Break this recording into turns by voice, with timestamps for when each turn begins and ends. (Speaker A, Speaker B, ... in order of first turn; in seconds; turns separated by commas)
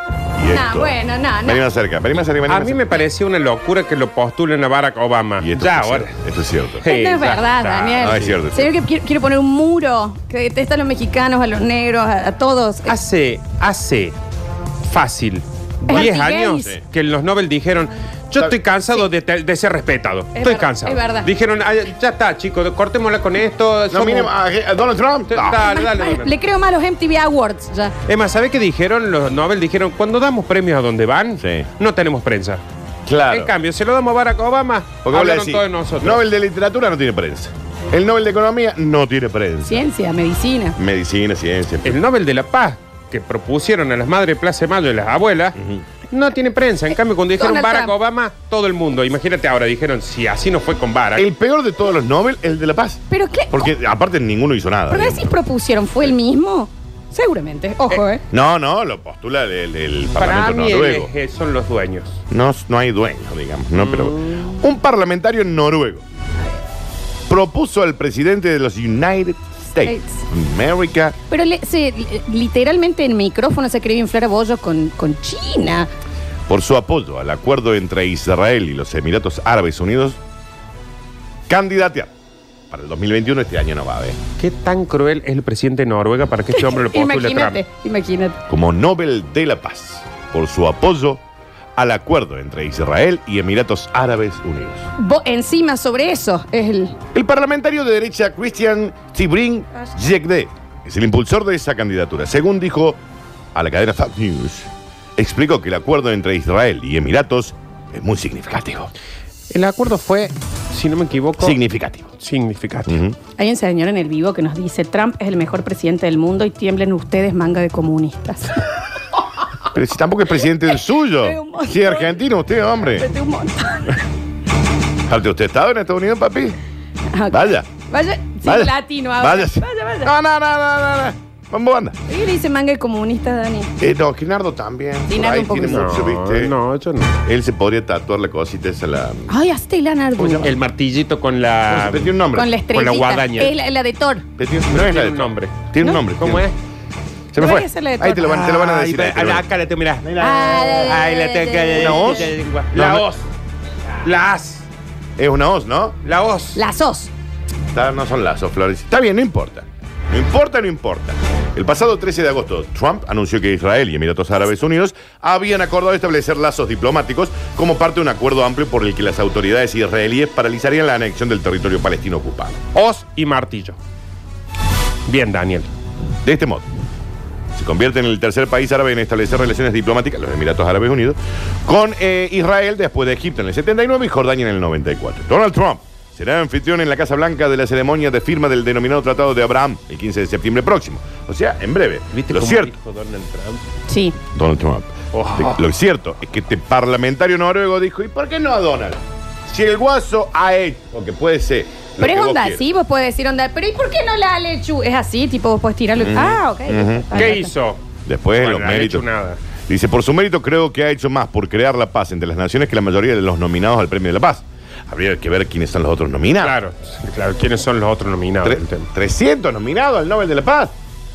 Speaker A: 0.4-2.8, Speaker B: 0.4-1.6, Speaker C: 2.5-6.2, Speaker A: 5.4-6.8, Speaker C: 6.8-8.4, Speaker B: 6.8-12.9, Speaker A: 8.0-8.7, Speaker C: 12.9-14.2, Speaker C: 14.8-24.3, Speaker B: 15.9-16.8, Speaker B: 20.3-21.3, Speaker A: 23.9-25.6, Speaker C: 25.3-26.3, Speaker B: 25.6-27.9, Speaker C: 28.1-32.6, Speaker A: 31.4-31.7, Speaker A: 33.0-33.5, Speaker C: 33.3-36.2, Speaker A: 35.0-39.9, Speaker B: 39.7-40.8, Speaker A: 40.8-42.0, Speaker C: 41.8-45.6, Speaker A: 45.6-45.8, Speaker C: 46.1-51.3, Speaker B: 47.4-47.9, Speaker A: 51.1-55.4, Speaker B: 53.1-53.7, Speaker B: 54.9-58.2, Speaker A: 58.3-61.1, Speaker C: 60.1-62.2, Speaker A: 62.3-66.0, Speaker C: 63.7-64.6, Speaker A: 67.3-71.2, Speaker B: 69.8-70.2, Speaker B: 71.3-75.9, Speaker A: 76.5-80.2, Speaker A: 81.5-82.1, Speaker A: 82.7-84.2, Speaker C: 84.4-87.6, Speaker B: 86.5-88.4, Speaker A: 88.5-91.2, Speaker A: 91.8-94.8, Speaker B: 95.0-97.0, Speaker A: 97.1-103.0, Speaker A: 103.5-108.9, Speaker C: 109.5-111.6, Speaker A: 111.4-112.1, Speaker C: 112.2-113.0, Speaker A: 112.9-113.2, Speaker B: 113.4-118.6, Speaker A: 119.7-123.0, Speaker B: 121.2-122.2, Speaker B: 122.8-124.0, Speaker A: 125.1-126.6, Speaker B: 127.1-130.1, Speaker A: 127.3-127.7, Speaker A: 128.4-131.9, Speaker B: 132.1-133.7, Speaker A: 133.8-136.5, Speaker B: 135.1-135.9, Speaker C: 135.7-137.1, Speaker A: 137.2-139.3, Speaker B: 139.3-140.5, Speaker C: 140.2-142.1, Speaker A: 141.7-142.5, Speaker B: 142.3-144.2, Speaker C: 142.7-143.5, Speaker A: 144.4-146.5, Speaker C: 144.7-146.5, Speaker A: 147.3-149.4, Speaker B: 147.3-148.4, Speaker C: 148.2-150.1, Speaker A: 150.0-151.0, Speaker B: 150.2-152.3, Speaker C: 150.8-153.3, Speaker A: 151.7-153.0, Speaker C: 154.0-154.7, Speaker A: 155.2-156.0, Speaker C: 156.0-156.6, Speaker B: 156.5-157.1, Speaker A: 157.7-172.6, Speaker C: 172.7-173.8, Speaker C: 175.1-175.7, Speaker A: 176.2-176.6, Speaker A: 177.5-192.7, Speaker C: 192.1-193.6, Speaker B: 193.9-194.2, Speaker A: 194.3-202.6, Speaker C: 195.1-195.7, Speaker B: 202.0-207.5, Speaker A: 205.9-207.4, Speaker C: 207.1-207.8, Speaker A: 208.1-209.0, Speaker C: 208.3-209.4, Speaker A: 209.7-216.6, Speaker C: 216.4-218.9, Speaker A: 218.4-220.7